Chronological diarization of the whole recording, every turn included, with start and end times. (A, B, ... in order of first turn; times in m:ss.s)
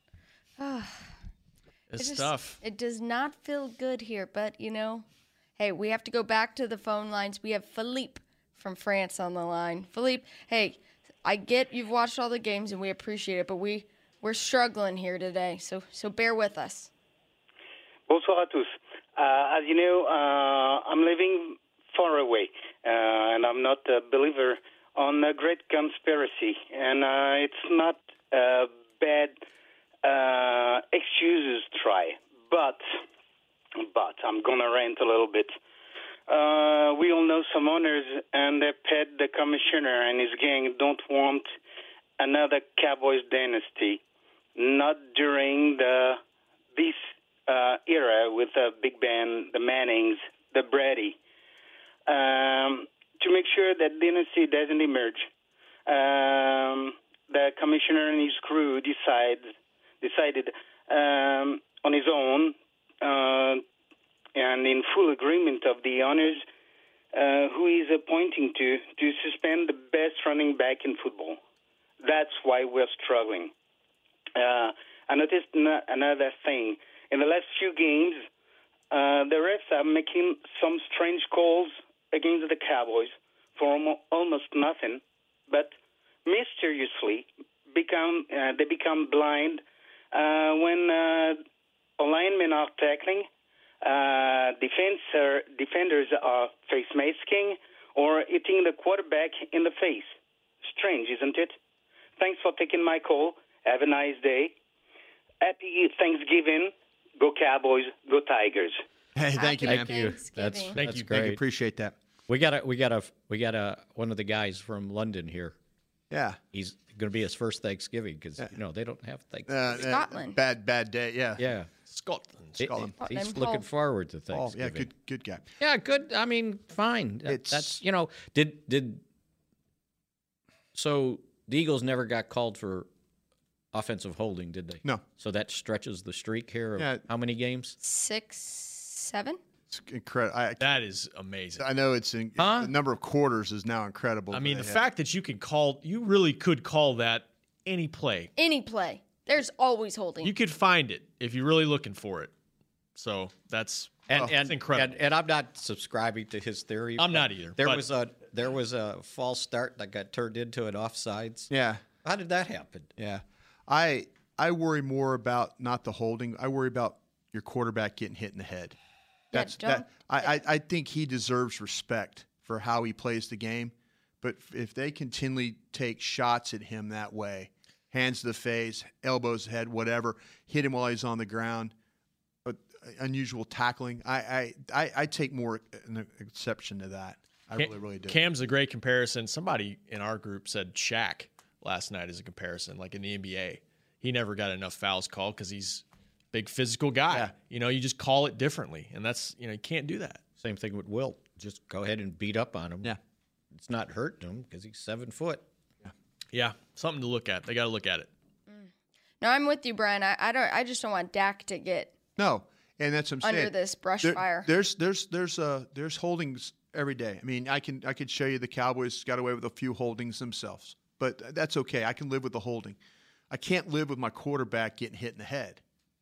0:00.6-0:01.0 A
0:01.9-0:02.6 B
0:02.0-0:05.0 A
0:05.6-0:16.9 A
0:18.1-0:29.4 C
0:30.0-0:32.8 C
0:33.8-0:35.6 C
0:36.3-0:41.5 C
0:42.2-0:44.0 C
0:44.6-0:46.2 C
0:46.7-0:51.2 C
0:52.1-0:55.3 C
0:55.9-1:03.6 C
1:04.4-1:06.4 C
1:07.1-1:11.4 C
1:12.0-1:13.5 C
1:14.4-1:18.2 C
1:18.9-1:25.7 C
1:26.2-1:29.6 C
1:30.1-1:31.4 C
1:32.0-1:33.3 C
1:33.8-1:40.1 C
1:40.7-1:41.6 C
1:42.2-1:44.5 C
1:45.4-1:48.8 C
1:49.1-1:49.9 D
1:49.4-1:50.8 A
1:49.6-1:51.4 E
1:50.8-1:51.1 B
1:51.1-1:51.9 D
1:52.3-1:55.5 E
1:56.1-1:56.4 D
1:56.5-1:59.8 E
1:59.5-2:01.4 D
1:59.7-2:00.4 A
2:01.4-2:01.7 E
2:01.9-2:02.6 B
2:02.6-2:04.9 E
2:02.6-2:02.9 D
2:03.0-2:03.6 A
2:04.3-2:05.5 D
2:05.6-2:09.0 E
2:07.2-2:07.8 D
2:10.7-2:12.9 E
2:13.7-2:17.8 E
2:16.8-2:17.0 D
2:17.8-2:19.4 A
2:19.7-2:20.7 D
2:20.6-2:21.6 B
2:21.6-2:24.8 D
2:22.4-2:22.7 E
2:24.3-2:28.3 B
2:28.4-2:30.3 A
2:30.2-2:32.3 B
2:33.0-2:35.0 B
2:34.1-2:41.5 E
2:37.0-2:37.8 B
2:41.5-2:41.8 D
2:42.0-2:42.9 E
2:43.0-2:48.8 D
2:49.3-2:50.3 A
2:49.3-3:01.7 D
3:02.4-3:08.2 D
3:07.6-3:20.2 B
3:20.4-3:23.0 E
3:23.5-3:25.4 E
3:26.3-3:28.1 B
3:29.2-3:31.9 A
3:32.2-3:42.8 D
3:33.2-3:34.5 A
3:43.3-3:45.6 D